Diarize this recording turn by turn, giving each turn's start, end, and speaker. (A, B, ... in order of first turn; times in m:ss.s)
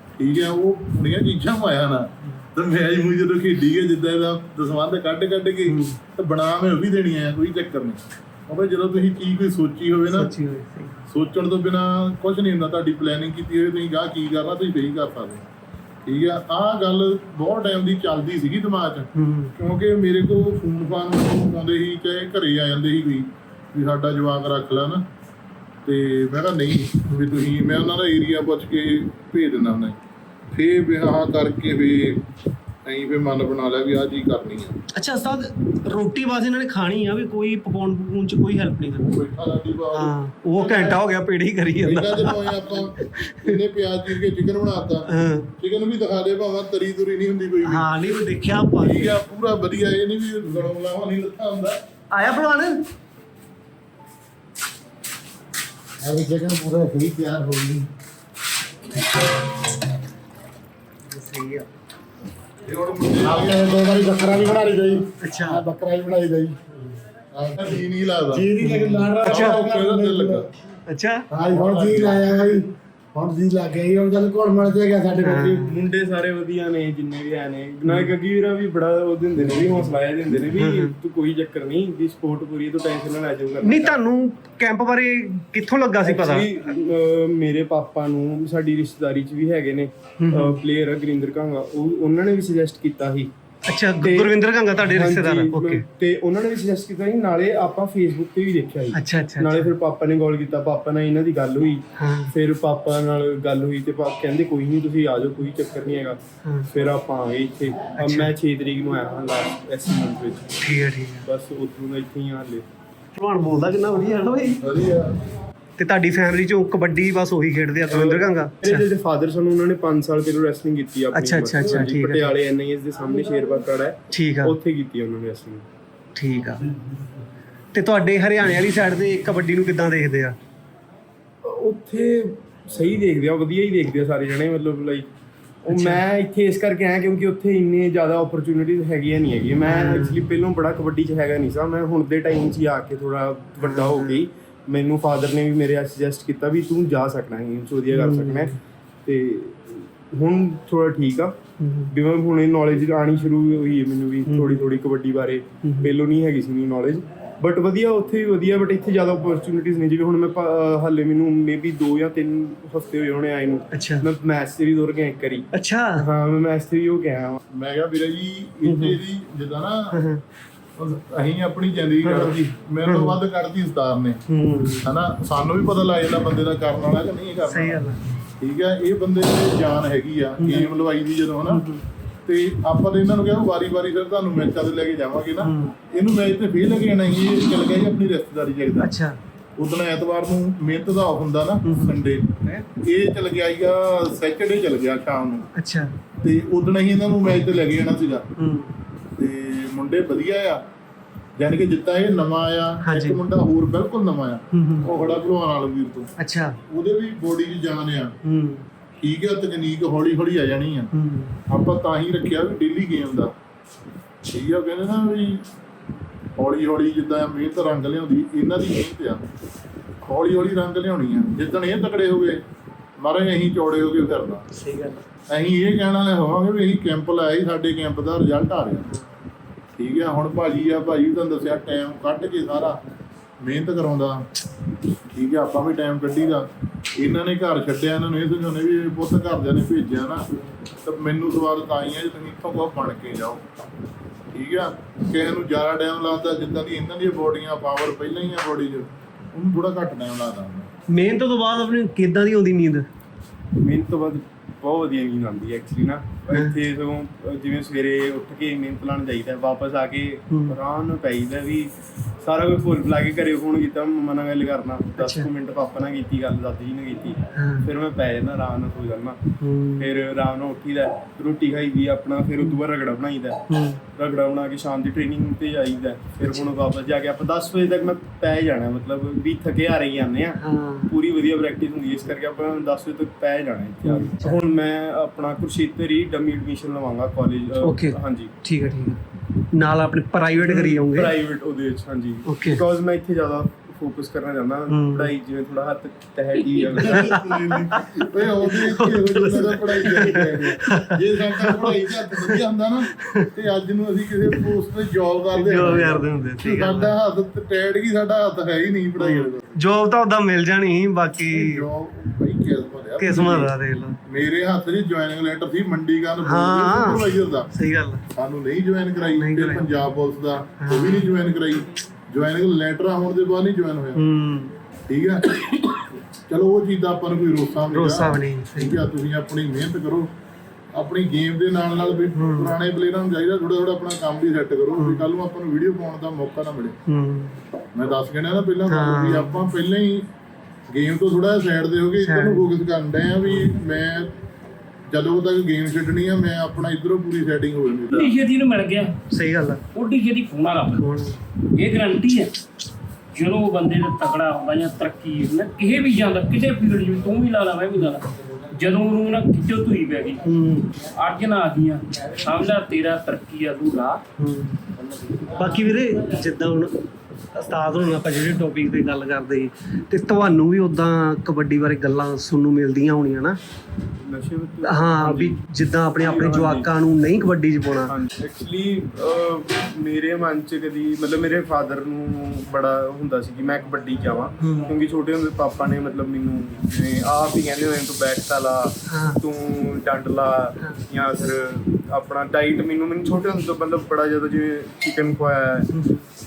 0:00.2-0:10.3 A
0:05.6-0:06.0 B
0:10.1-0:11.0 B
0:11.1-0:15.5 A
0:16.0-0:25.0 A
0:19.1-0:19.5 B
0:25.8-0:30.0 A
0:27.1-0:27.3 B
0:30.5-0:32.2 A
0:32.8-0:34.8 A
0:34.9-0:39.2 B
0:39.0-0:41.0 A
0:39.9-0:43.6 B
0:41.8-0:48.0 A
0:45.1-0:45.5 B
0:47.6-0:49.2 B
0:48.8-0:51.8 A
0:52.1-0:52.8 B
0:56.0-0:57.9 C
1:01.0-1:01.7 B
1:02.6-1:03.6 A
1:03.2-1:06.6 C
1:05.2-1:05.6 B
1:07.3-1:10.5 C
1:07.4-1:08.5 A
1:08.6-1:09.6 B
1:09.2-1:10.5 A
1:10.9-1:11.2 B
1:11.3-1:15.6 C
1:11.4-1:12.2 A
1:15.2-1:15.8 B
1:15.6-1:24.0 D
1:20.6-1:20.9 B
1:23.6-1:26.5 B
1:26.0-1:33.3 D
1:30.2-1:30.6 B
1:33.7-1:35.8 B
1:34.0-1:52.7 D
1:38.9-1:39.7 B
1:42.0-1:42.3 B
1:48.0-1:48.3 B
1:50.6-1:51.2 B
1:53.1-1:54.6 B
1:54.6-1:55.2 A
1:55.8-1:58.8 B
1:57.9-2:05.6 D
2:01.1-2:02.3 B
2:04.1-2:04.6 B
2:06.2-2:06.7 B
2:07.7-2:10.4 B
2:11.4-2:15.1 D
2:15.6-2:47.4 D
2:15.7-2:16.0 B
2:19.6-2:20.2 B
2:23.6-2:24.2 B
2:27.9-2:28.5 B
2:31.6-2:31.9 B
2:34.3-2:34.6 B
2:35.6-2:35.9 B
2:43.7-2:44.0 B
2:45.5-2:46.0 B
2:47.5-2:50.0 A
2:48.6-2:49.0 B
2:49.9-2:50.2 B
2:50.8-2:54.2 A
2:52.0-2:52.3 B
2:52.8-2:53.2 B
2:54.3-2:54.9 B
2:54.8-2:57.8 A
2:57.5-2:58.0 B
2:58.4-3:01.6 A
3:00.4-3:00.7 B
3:01.5-3:01.8 B
3:02.2-3:08.9 A
3:05.4-3:05.7 B
3:08.8-3:09.2 B
3:09.6-3:15.5 A
3:11.6-3:12.0 B
3:15.6-3:15.9 B
3:16.2-3:18.3 A
3:18.4-3:18.7 B
3:19.2-3:20.6 A
3:21.4-3:26.1 A
3:22.8-3:23.2 B
3:24.5-3:24.9 B
3:26.2-3:26.6 B
3:26.7-3:28.1 A
3:28.2-3:28.6 B
3:29.0-3:30.9 A
3:30.9-3:31.4 B
3:31.5-3:33.3 A
3:34.3-3:35.4 A
3:36.4-3:39.3 A
3:40.0-3:42.4 A
3:43.0-3:44.5 A
3:44.5-3:45.0 B
3:45.3-3:48.9 A
3:49.8-3:52.8 A
3:53.4-3:54.2 A
3:55.1-4:00.3 A
4:00.8-4:03.4 A
4:04.3-4:10.7 A
4:10.9-4:12.8 B
4:13.6-4:29.2 D
4:25.0-4:25.2 B
4:27.3-4:27.7 B
4:29.4-4:29.9 B
4:29.8-4:48.3 D
4:33.5-4:33.8 B
4:40.4-4:40.9 B
4:43.8-4:44.4 B
4:47.6-4:51.1 B
4:50.4-4:57.2 D
4:52.2-4:52.6 B
4:54.7-4:55.1 B
4:56.5-5:03.3 B
4:56.8-5:09.5 A
5:05.3-5:06.9 B
5:09.0-5:11.6 B
5:11.3-5:13.5 A
5:13.0-5:14.0 B
5:14.1-5:17.5 A
5:16.2-5:18.0 B
5:18.1-5:24.0 A
5:19.1-5:19.6 B
5:20.6-5:21.1 B
5:24.0-5:24.5 B
5:24.9-5:25.7 A
5:26.3-5:30.1 A
5:27.7-5:28.8 B
5:30.7-5:36.8 A
5:32.1-5:32.5 B
5:34.8-5:35.0 B
5:36.9-5:37.4 B
5:37.7-5:40.1 A
5:38.7-5:39.5 B
5:40.7-5:44.1 A
5:42.0-5:42.5 B
5:44.9-5:48.1 A
5:47.9-5:49.0 E
5:49.1-5:49.6 B
5:49.7-5:50.8 E
5:50.7-5:51.2 B
5:51.6-5:52.3 E
5:53.1-6:00.2 E
6:00.2-6:00.7 B
6:01.0-6:04.0 E
6:04.2-6:04.6 B
6:05.3-6:06.7 B
6:07.3-6:13.4 B
6:14.0-6:15.4 D
6:14.6-6:17.9 B
6:16.0-6:16.7 D
6:17.9-6:35.7 D
6:24.4-6:24.7 B
6:28.9-6:29.2 B
6:35.7-6:36.0 B